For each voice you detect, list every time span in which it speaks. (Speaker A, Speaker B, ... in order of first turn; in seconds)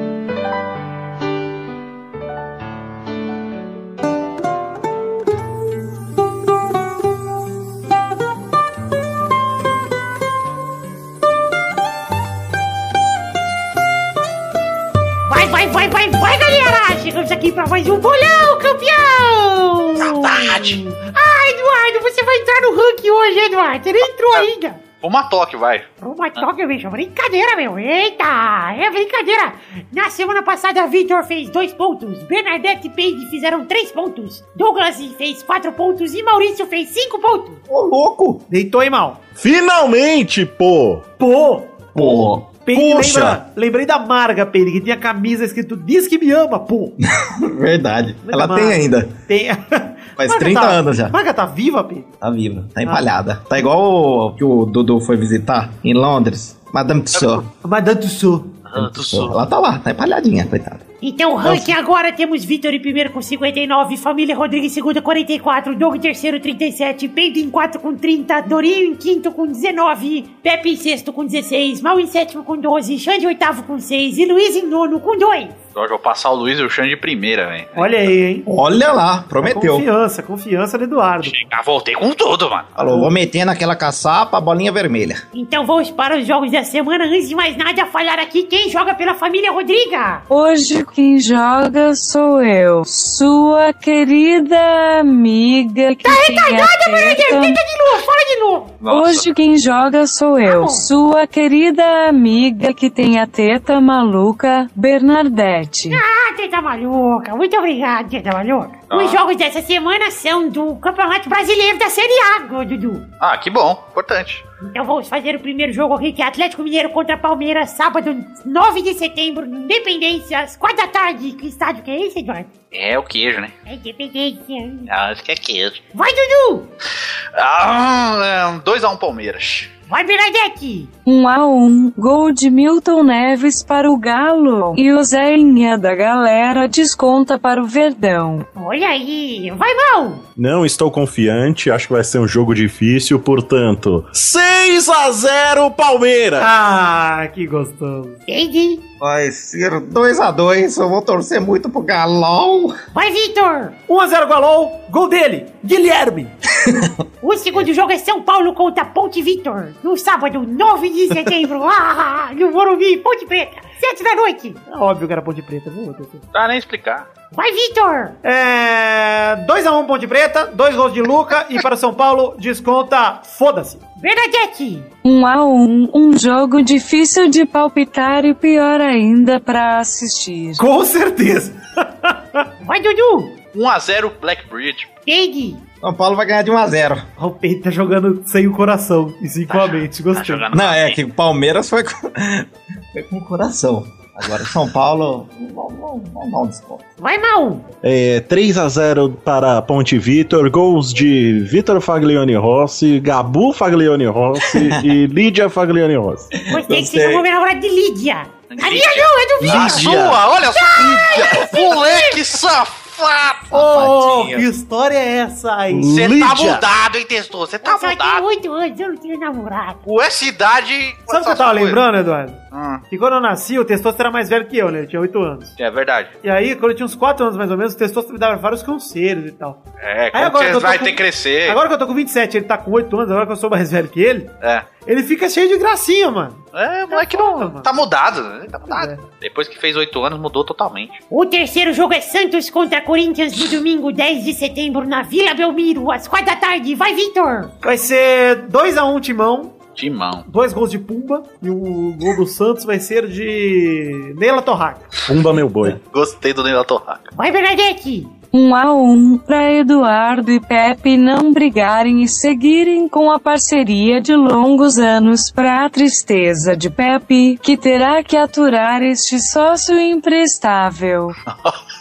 Speaker A: 15.3-24.8, 26.0-37.6, 61.0-75.5, 85.3-90.2, 96.0-98.8, 100.4-100.8, 105.9-113.0, 114.6-122.5, 123.7-124.9, 125.9-126.7, 129.9-130.9, 138.5-140.2, 148.3-148.8, 152.9-153.8, 157.2-164.6, 167.3-168.2, 174.0-174.9, 182.6-183.3, 185.1-185.6, 197.0-197.7, 206.5-212.2, 217.6-219.8, 241.1-247.5, 257.1-258.1
Speaker B: 20.0-20.8, 24.0-24.5, 25.0-26.5, 57.1-57.4, 58.7-59.4, 75.7-78.0, 81.2-82.7, 98.8-99.3, 108.9-109.2, 113.2-114.4, 122.7-123.5, 124.9-125.8, 127.3-129.7, 166.3-167.1, 183.5-184.9, 189.5-191.0, 208.5-213.5, 215.9-218.2, 219.8-221.8, 222.5-222.8, 225.6-226.1, 229.8-231.6, 236.5-241.0, 249.8-250.2, 255.8-257.1, 271.3-271.6
Speaker C: 37.7-38.4, 41.9-43.4, 47.0-49.1, 50.2-51.1, 52.2-57.5, 58.7-60.8, 78.5-79.9, 82.8-85.2, 149.0-152.8, 156.6-156.9, 185.8-187.1, 190.5-196.8, 204.4-204.9, 206.3-207.2, 209.4-210.2, 211.1-211.4, 213.5-214.5
Speaker D: 38.5-39.2, 41.2-47.0, 48.2-52.1, 57.5-58.6, 77.8-78.5, 79.4-81.4, 146.4-148.2, 153.9-156.3, 164.7-166.2, 168.2-173.8, 180.6-182.5, 187.2-190.5, 213.5-216.0, 221.1-222.4, 222.9-225.5, 226.2-229.6, 230.1-234.3, 234.8-237.7, 238.7-239.0, 247.6-249.6, 250.3-254.8
Speaker E: 39.4-41.0, 140.4-146.5, 197.8-206.3, 215.7-216.6, 255.1-255.8
Speaker F: 90.3-97.6, 98.8-106.0, 131.1-138.5, 175.0-180.6, 258.3-271.1